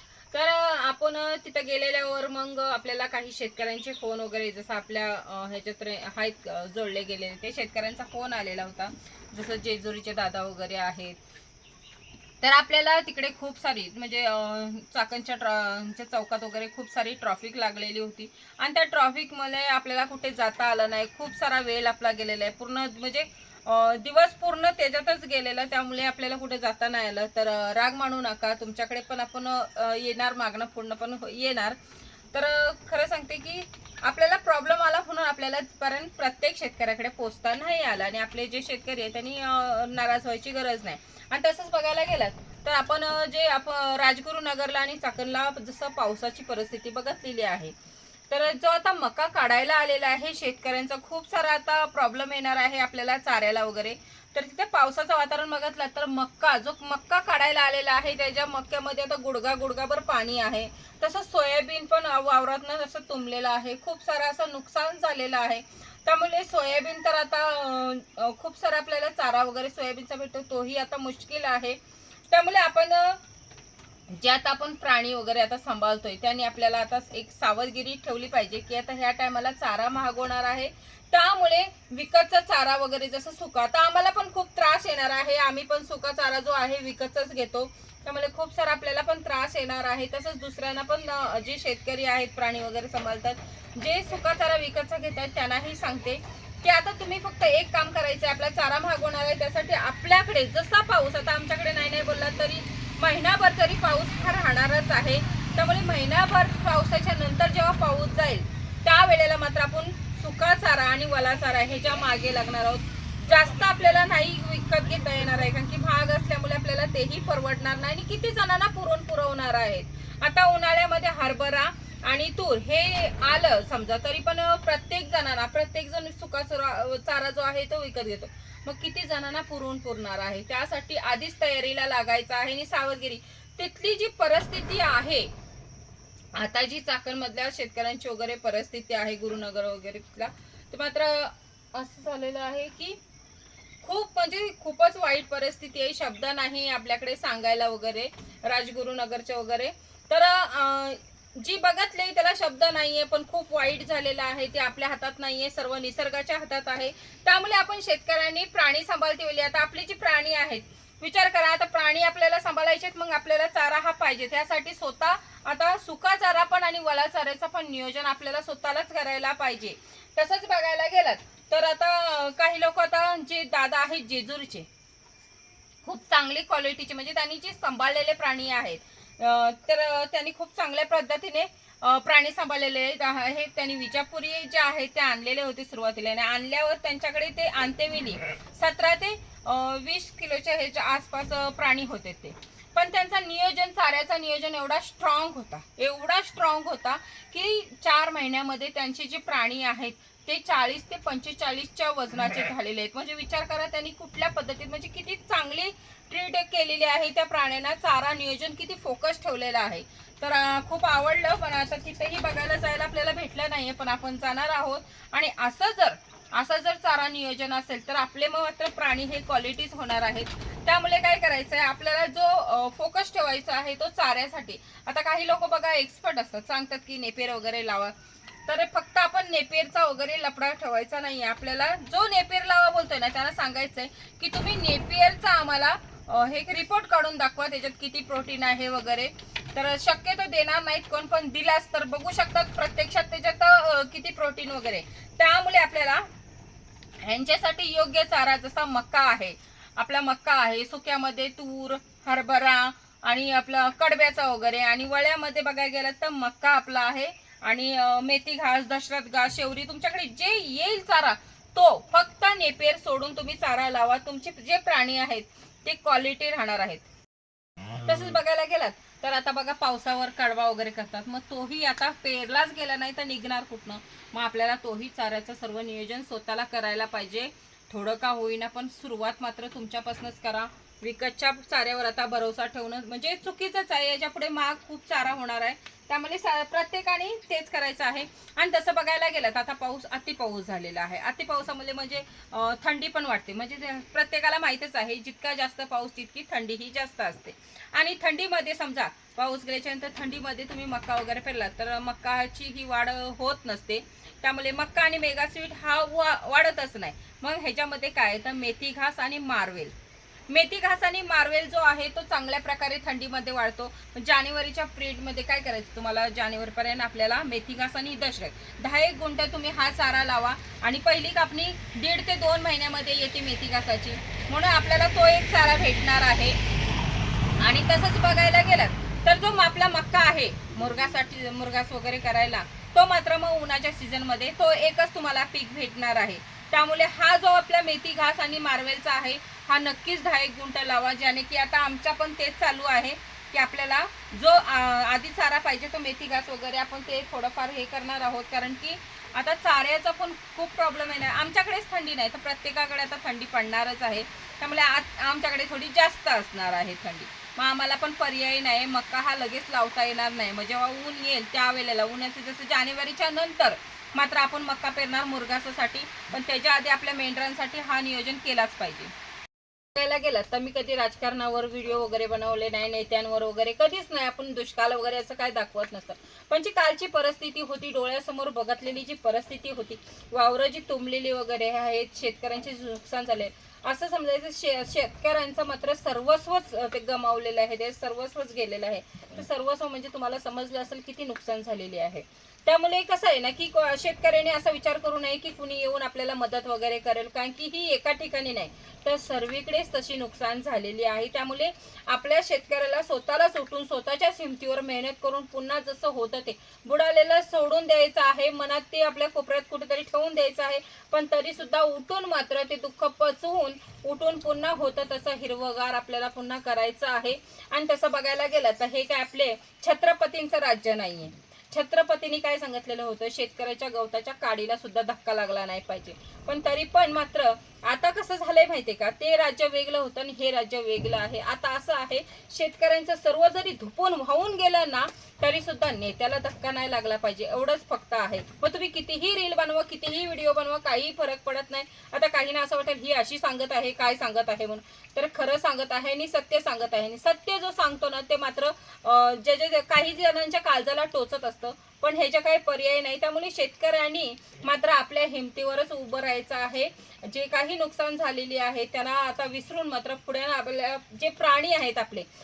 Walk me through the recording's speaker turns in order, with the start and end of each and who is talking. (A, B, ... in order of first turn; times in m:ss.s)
0:00.3-0:11.2 A
0:12.4-0:31.8 A
0:32.3-0:47.7 A
0:48.3-1:11.8 A
1:12.3-1:13.2 A
1:14.1-2:15.3 A
2:16.3-2:23.0 A
2:23.8-2:54.7 A
2:55.8-3:47.9 A
3:48.5-4:06.1 A
4:07.0-4:26.9 A
4:27.8-5:09.7 A
5:10.3-5:26.4 A
5:27.4-6:08.9 A
6:09.8-7:42.1 A